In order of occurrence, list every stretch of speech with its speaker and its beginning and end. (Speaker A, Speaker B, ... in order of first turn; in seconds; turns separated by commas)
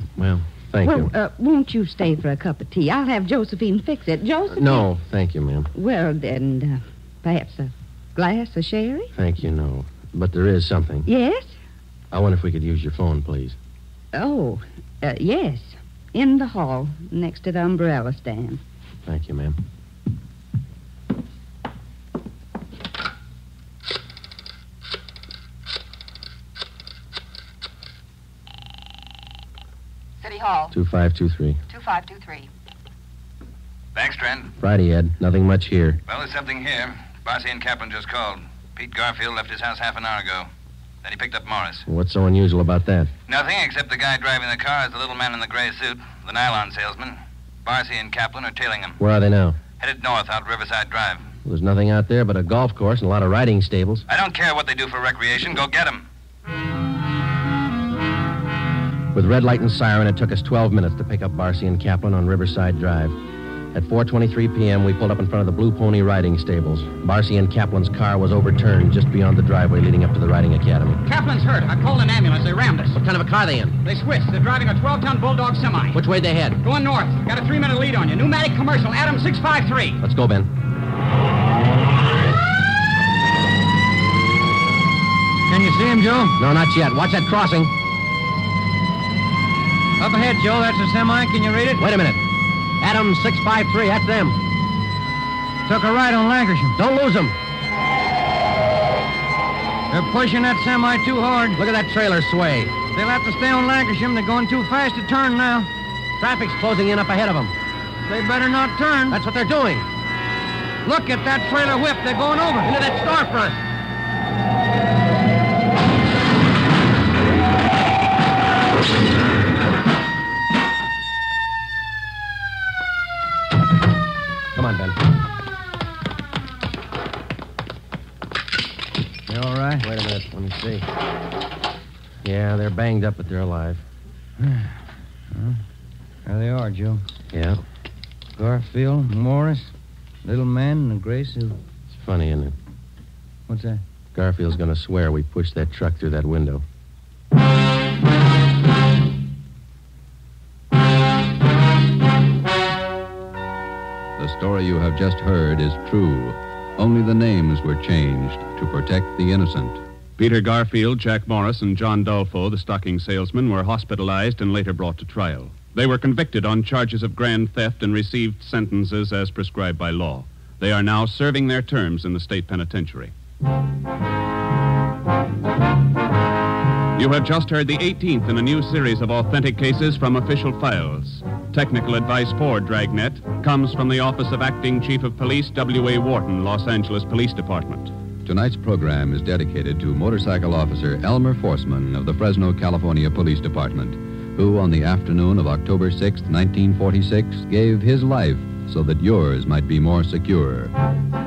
Speaker A: 0.2-1.1, Speaker B: 0.8-4.9, Speaker A: 4.5-5.7, Speaker B: 5.7-9.1, Speaker A: 9.2-11.1, Speaker B: 11.1-11.6, Speaker A: 12.1-13.6, Speaker B: 14.1-18.6, Speaker A: 19.1-19.6, Speaker B: 30.2-30.7, Speaker A: 30.7-31.6, Speaker B: 31.7-32.5, Speaker C: 33.9-34.5, Speaker A: 34.6-36.0, Speaker C: 36.1-40.5, Speaker C: 41.0-41.9, Speaker A: 41.9-43.1, Speaker C: 43.3-49.0, Speaker A: 49.0-49.6, Speaker C: 49.8-51.3, Speaker A: 51.5-54.0, Speaker C: 54.1-56.0, Speaker A: 59.1-63.2, Speaker A: 63.7-71.0, Speaker D: 71.1-73.0, Speaker A: 73.0-73.8, Speaker D: 73.8-76.0, Speaker A: 75.9-76.6, Speaker D: 76.6-80.0, Speaker A: 80.0-80.5, Speaker E: 85.5-86.4, Speaker A: 86.4-87.7, Speaker E: 90.0-91.8, Speaker A: 91.8-92.2, Speaker A: 92.8-94.4, Speaker E: 95.7-96.8, Speaker A: 96.8-97.4, Speaker E: 99.9-101.6, Speaker A: 101.6-102.8, Speaker E: 102.8-105.7, Speaker A: 106.2-107.5, Speaker E: 108.1-109.2, Speaker A: 109.1-109.9, Speaker E: 110.8-112.7, Speaker A: 112.6-113.6, Speaker A: 124.5-125.0, Speaker E: 129.3-129.9, Speaker A: 129.8-130.9, Speaker A: 132.2-133.8, Speaker E: 134.4-135.6, Speaker E: 136.2-137.0, Speaker A: 137.3-137.6, Speaker E: 138.4-139.7, Speaker E: 140.2-141.6, Speaker A: 141.9-142.6, Speaker E: 143.5-143.8, Speaker A: 144.2-146.6, Speaker F: 154.2-159.8, Speaker G: 160.2-173.1, Speaker G: 177.0-187.9, Speaker F: 188.2-200.7